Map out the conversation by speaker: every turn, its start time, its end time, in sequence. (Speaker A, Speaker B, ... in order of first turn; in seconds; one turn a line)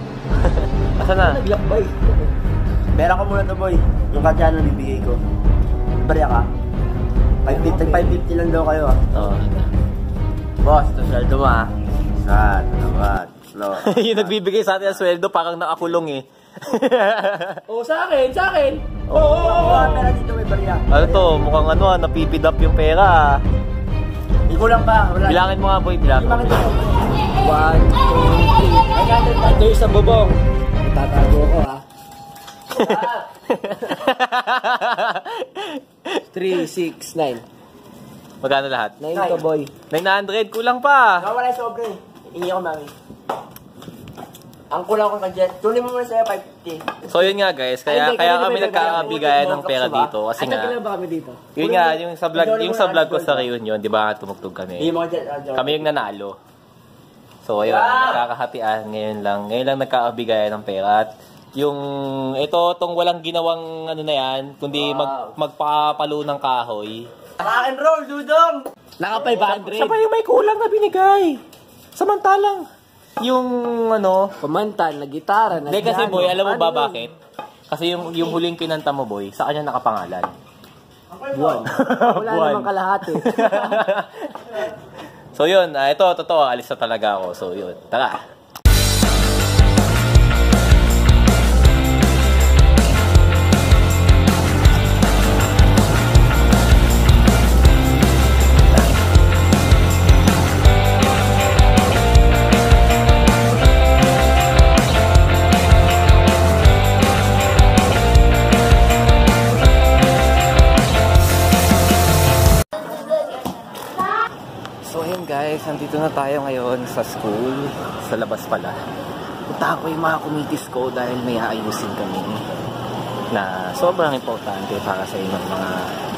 Speaker A: 0.5-1.4
Speaker B: 1.2-2.3
Speaker C: 3.0-5.2
Speaker C: 6.0-6.5
Speaker C: 7.5-9.0
Speaker B: 7.5-8.1
Speaker A: 9.1-9.7
Speaker C: 10.6-15.0
Speaker A: 13.8-17.6
Speaker B: 17.7-18.8
Speaker A: 19.1-20.0
Speaker C: 19.1-21.3
Speaker B: 19.4-19.8
Speaker A: 20.9-23.4
Speaker C: 24.5-25.5
Speaker A: 25.3-26.8
Speaker C: 26.1-26.9
Speaker B: 27.4-31.8
Speaker C: 29.1-29.5
Speaker A: 32.7-36.6
Speaker C: 32.8-33.2
Speaker B: 36.3-37.4
Speaker A: 38.4-39.0
Speaker B: 39.0-39.7
Speaker C: 39.1-39.5
Speaker A: 39.9-41.3
Speaker C: 41.2-42.9
Speaker C: 44.7-47.0
Speaker A: 47.1-50.8
Speaker B: 47.9-49.1
Speaker C: 48.7-50.1
Speaker B: 50.4-51.4
Speaker A: 51.5-54.9
Speaker C: 51.6-53.5
Speaker C: 54.8-55.9
Speaker A: 55.5-56.4
Speaker A: 57.5-61.8
Speaker C: 57.6-58.2
Speaker A: 62.4-67.1
Speaker C: 64.7-65.3
Speaker C: 67.4-68.6
Speaker B: 69.0-70.0
Speaker A: 69.1-71.4
Speaker A: 72.0-72.7
Speaker A: 73.2-74.3
Speaker B: 74.4-77.0
Speaker A: 75.7-77.2
Speaker A: 77.7-80.3
Speaker C: 81.1-81.7
Speaker B: 81.3-83.8
Speaker A: 81.7-84.6
Speaker A: 85.3-88.2
Speaker A: 114.8-118.8
Speaker A: 119.5-122.5
Speaker A: 123.3-125.9